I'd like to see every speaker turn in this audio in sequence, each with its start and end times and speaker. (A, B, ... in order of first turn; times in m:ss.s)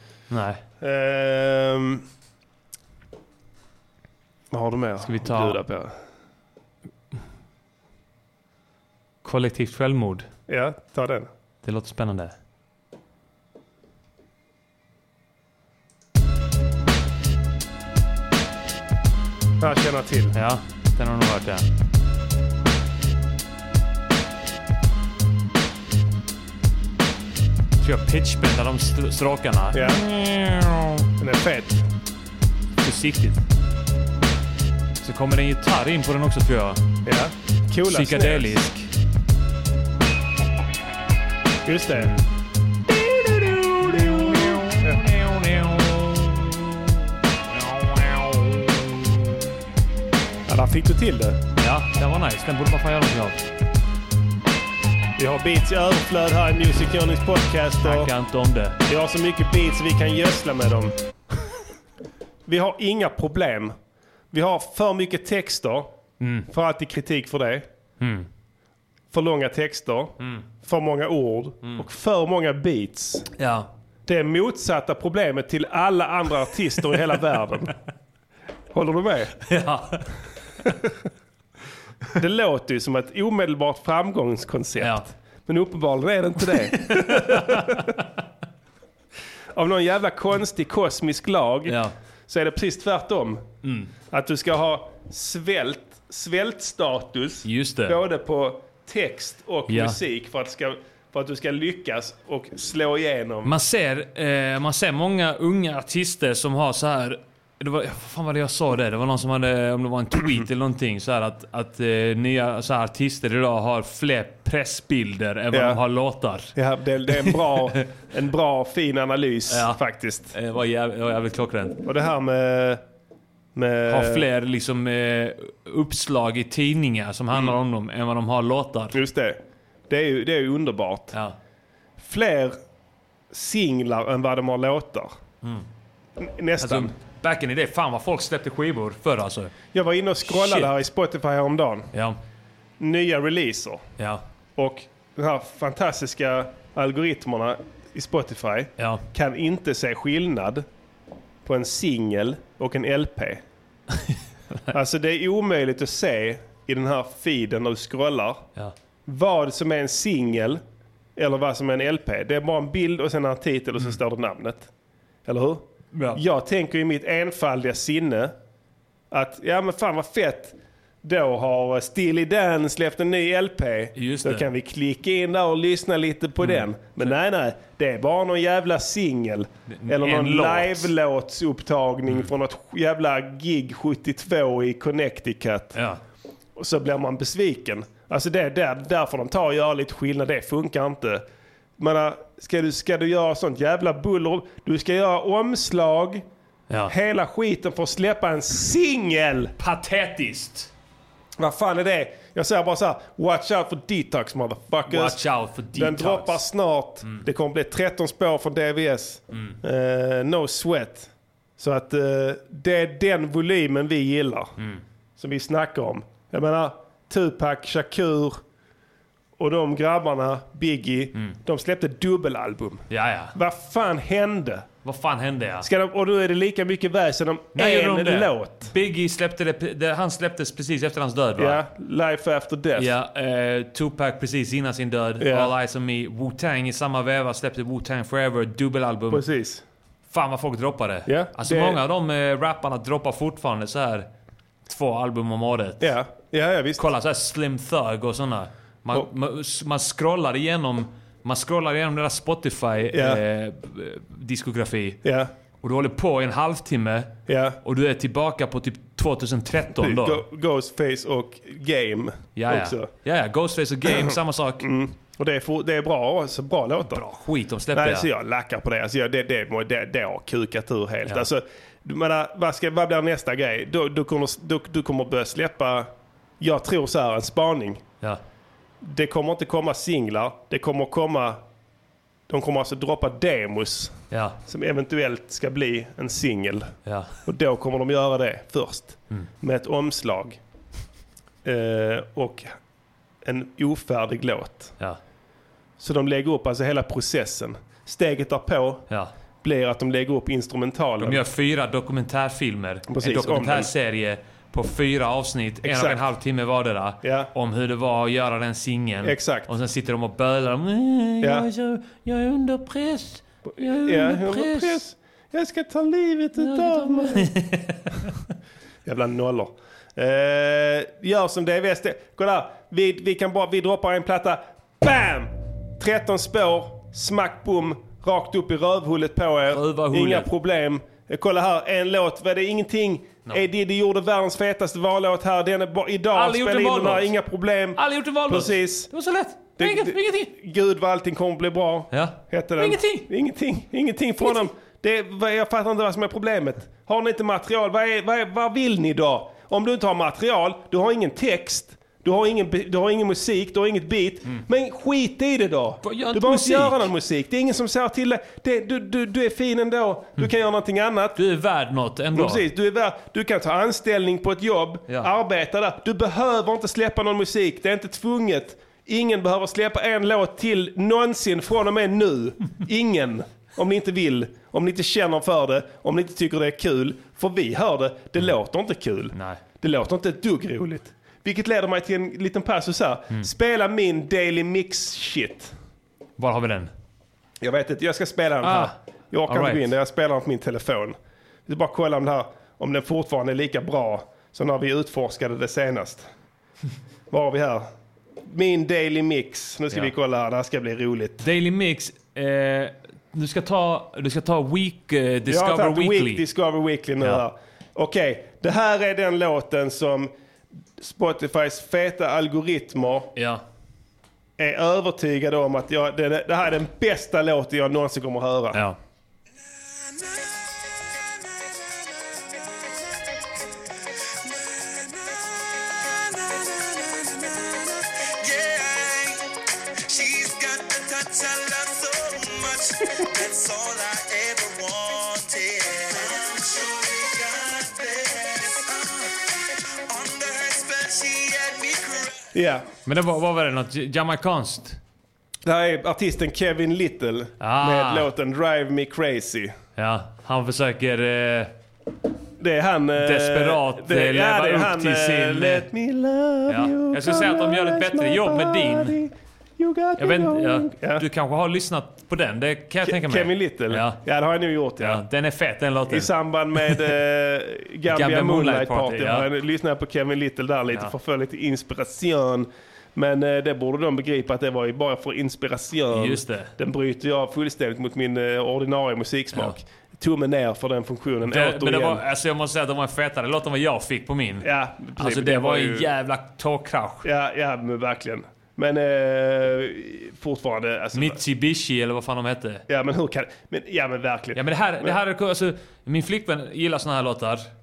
0:00.3-0:00.6 A
0:00.8-0:02.0 B
0:04.5-0:05.9 B
0:05.0-0:05.6 A
0:09.2-0:10.3 A
0:10.5-0:11.3 B
0:11.6-0:12.4 A
0:19.6-0:20.4 B
0:20.3-0:21.7 A
0:27.8-0:31.0 A
0:29.7-0:30.0 B
0:31.2-0:31.9 B
0:32.8-0:33.5 A
0:35.0-0:36.8 A
0:37.1-0:38.6 B
0:37.9-0:38.9 A
0:41.6-0:42.1 B
0:42.0-0:42.3 A
0:43.4-0:46.5 A
0:43.9-0:45.0 B
0:47.5-0:48.8 A
0:50.5-0:51.4 B
0:51.6-0:53.4 A
0:55.2-0:58.1 B
0:57.8-0:58.8 A
0:58.8-1:00.9 B
1:02.5-1:03.7 B
1:04.3-1:05.9 B
1:06.2-1:06.5 A
1:06.5-1:07.7 B
1:08.0-1:08.3 A
1:09.1-1:13.3 B
1:10.2-1:10.4 A
1:13.4-1:13.7 A
1:14.1-1:17.8 B
1:18.7-1:19.4 B
1:19.5-1:20.1 A
1:20.6-1:20.9 B
1:22.2-1:27.9 B
1:24.8-1:25.0 A
1:26.8-1:28.0 A
1:29.6-1:31.8 B
1:31.7-1:31.9 A
1:32.3-1:33.4 B
1:33.6-1:33.9 A
1:34.1-1:43.5 B
1:37.4-1:38.0 A
1:39.7-1:40.0 A
1:43.4-1:56.5 A
1:55.5-1:55.8 B
1:56.6-2:00.3 B
1:57.2-1:57.6 A
1:59.5-1:59.8 A
2:00.3-2:01.8 A
2:01.8-2:02.8 B
2:03.6-2:04.3 B
2:03.9-2:09.0 A
2:08.9-2:11.1 B
2:11.1-2:11.4 A
2:12.0-2:12.6 B
2:13.3-2:15.1 B
2:16.2-2:16.9 B
2:16.6-2:19.5 A
2:19.7-2:21.9 B
2:20.3-2:20.7 A
2:21.9-2:22.2 A
2:22.8-2:23.9 B
2:24.6-2:30.6 B
2:28.8-2:29.0 A
2:31.4-2:33.4 B
2:34.1-2:34.7 A
2:34.7-2:38.5 B
2:39.1-2:40.6 B
2:41.2-2:44.7 B
2:45.3-2:48.3 B
2:45.9-2:46.2 A
2:49.1-3:05.8 B
2:54.0-2:54.5 A
2:56.4-2:57.1 A
2:59.7-3:00.9 A
3:05.7-3:06.0 A
3:06.6-3:11.2 B
3:11.8-3:16.2 B
3:16.9-3:19.5 B
3:19.6-3:20.7 A
3:21.4-3:25.2 B
3:24.9-3:26.4 A
3:25.7-3:34.5 B
3:35.2-3:38.4 B
3:39.4-3:44.7 B
3:42.9-3:43.4 A
3:44.8-3:45.7 A
3:45.6-3:48.7 B
3:47.6-3:51.6 A
3:51.4-3:52.9 B
3:52.8-3:59.2 A
3:55.2-3:55.5 B
3:59.1-3:59.6 B
4:00.1-4:04.1 A
4:01.1-4:01.8 B
4:04.7-4:05.9 A
4:05.8-4:06.8 B
4:06.8-4:15.0 A
4:12.9-4:13.2 B
4:15.0-4:15.3 B
4:15.6-4:20.2 A
4:17.3-4:17.6 B
4:19.8-4:22.9 B
4:22.4-4:24.7 A
4:23.9-4:27.0 B
4:26.9-4:28.1 A
4:27.7-4:35.9 B
4:36.4-4:37.8 B
4:38.8-4:41.4 B
4:42.3-4:50.4 B
4:44.1-4:44.4 A
4:46.9-4:47.1 A
4:51.4-4:52.6 B
4:53.2-4:54.8 B
4:55.8-4:58.9 B
4:59.4-5:01.2 B
5:01.0-5:14.8 A
5:02.9-5:03.7 B
5:05.6-5:06.0 B
5:07.0-5:07.3 B
5:09.0-5:09.5 B
5:13.5-5:17.3 B
5:16.4-5:18.1 A
5:18.9-5:38.9 B
5:29.5-5:30.3 A
5:36.1-5:37.1 A
5:37.8-5:40.3 A
5:39.6-6:01.2 B
5:41.9-5:43.1 A
5:55.8-5:56.9 A
6:01.2-6:02.5 A
6:02.2-6:25.5 B
6:19.1-6:19.4 A
6:26.2-6:26.7 A
6:27.4-6:31.0 B
6:28.4-6:28.7 A
6:29.3-6:29.6 A
6:31.5-6:36.1 B
6:37.1-6:37.7 B
6:38.2-6:41.2 B
6:41.2-6:46.2 A
6:45.3-6:50.1 B
6:50.8-6:53.1 B
6:53.2-6:53.4 A
6:54.4-6:58.6 B
6:59.9-7:00.2 C
7:01.5-7:03.0 C
7:04.3-7:09.3 C
7:09.9-7:22.3 C
7:22.3-7:22.7 B
7:22.9-7:24.8 A
7:25.5-7:29.6 B
7:27.4-7:28.1 A
7:29.8-7:31.6 A
7:32.4-7:41.0 B
7:33.0-7:35.7 A
7:36.5-7:39.0 A
7:40.0-7:44.0 A
7:42.8-7:45.0 B
7:44.8-7:46.1 A
7:45.9-8:02.0 B
7:47.9-7:49.3 A
7:55.9-7:56.5 A
8:01.3-8:07.1 A
8:04.4-8:05.9 B
8:07.0-8:11.2 B
8:11.0-8:12.6 A
8:12.7-8:14.9 B
8:14.4-8:17.5 A